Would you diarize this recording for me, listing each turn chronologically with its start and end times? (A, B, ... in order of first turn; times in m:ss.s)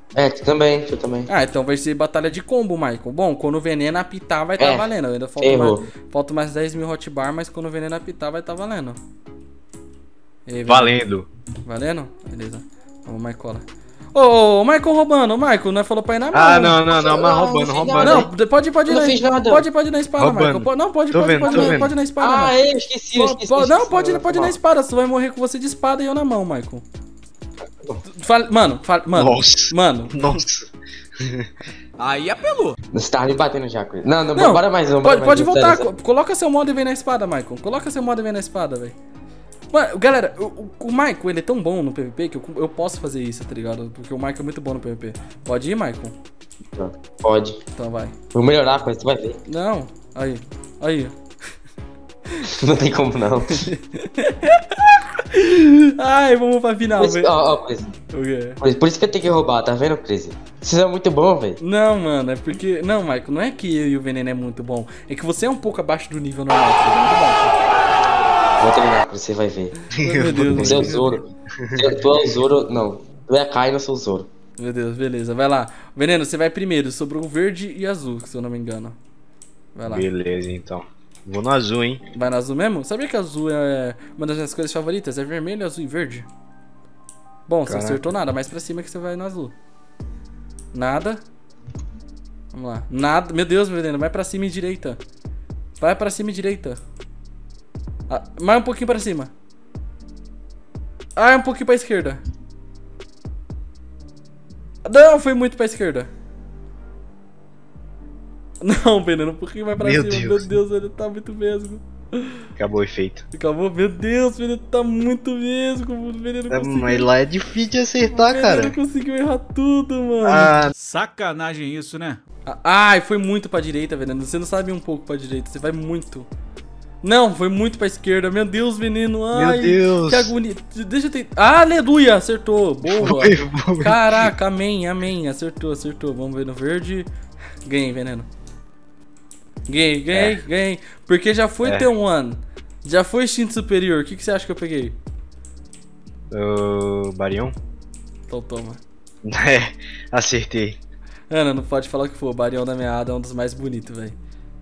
0:00.2-0:01.3 A
0:01.3-0:09.0 B
0:04.6-0:04.9 A
0:05.4-0:05.9 A
0:10.5-0:11.0 B
0:10.7-0:11.3 C
0:11.6-0:16.8 B
0:16.3-0:18.3 C
0:16.9-0:18.3 A
0:18.0-0:22.6 B
0:18.9-0:19.6 A
0:20.2-0:22.0 C
0:21.4-0:24.6 A
0:23.1-0:26.8 B
0:28.1-0:30.4 B
0:29.2-0:31.5 C
0:32.0-0:32.8 D
0:32.9-0:35.9 A
0:34.4-0:39.0 B
0:39.7-0:46.2 B
0:46.7-0:47.6 A
0:47.8-0:48.2 B
0:48.3-0:49.4 A
0:49.5-0:51.2 B
0:52.4-0:53.7 A
0:53.5-0:57.4 B
0:57.0-0:57.9 A
0:58.1-0:58.6 B
0:58.6-1:01.6 A
1:01.6-1:07.6 B
1:08.6-1:09.8 A
1:10.0-1:12.0 C
1:10.0-1:11.2 B
1:10.5-1:11.2 A
1:11.8-1:14.3 A
1:14.6-1:19.0 B
1:19.8-1:20.1 B
1:19.9-1:22.0 C
1:22.1-1:26.3 B
1:27.5-1:29.6 B
1:27.7-1:28.1 C
1:30.7-1:31.2 B
1:32.5-1:35.0 B
1:35.8-1:36.8 B
1:38.1-1:39.3 B
1:41.2-1:42.2 B
1:44.8-1:46.1 B
1:48.6-1:52.5 B
1:49.8-1:50.5 C
1:52.6-1:53.3 C
1:53.3-1:57.1 B
1:56.5-1:58.8 C
1:58.0-2:00.6 B
2:00.2-2:00.7 C
2:00.8-2:02.2 D
2:02.5-2:06.3 B
2:07.0-2:17.1 B
2:09.3-2:10.3 C
2:12.8-2:14.3 C
2:17.6-2:18.3 B
2:19.7-2:25.0 B
2:20.1-2:20.4 C
2:21.6-2:21.9 C
2:26.3-2:27.6 C
2:28.3-2:28.8 B
2:29.2-2:30.8 C
2:31.3-2:34.2 B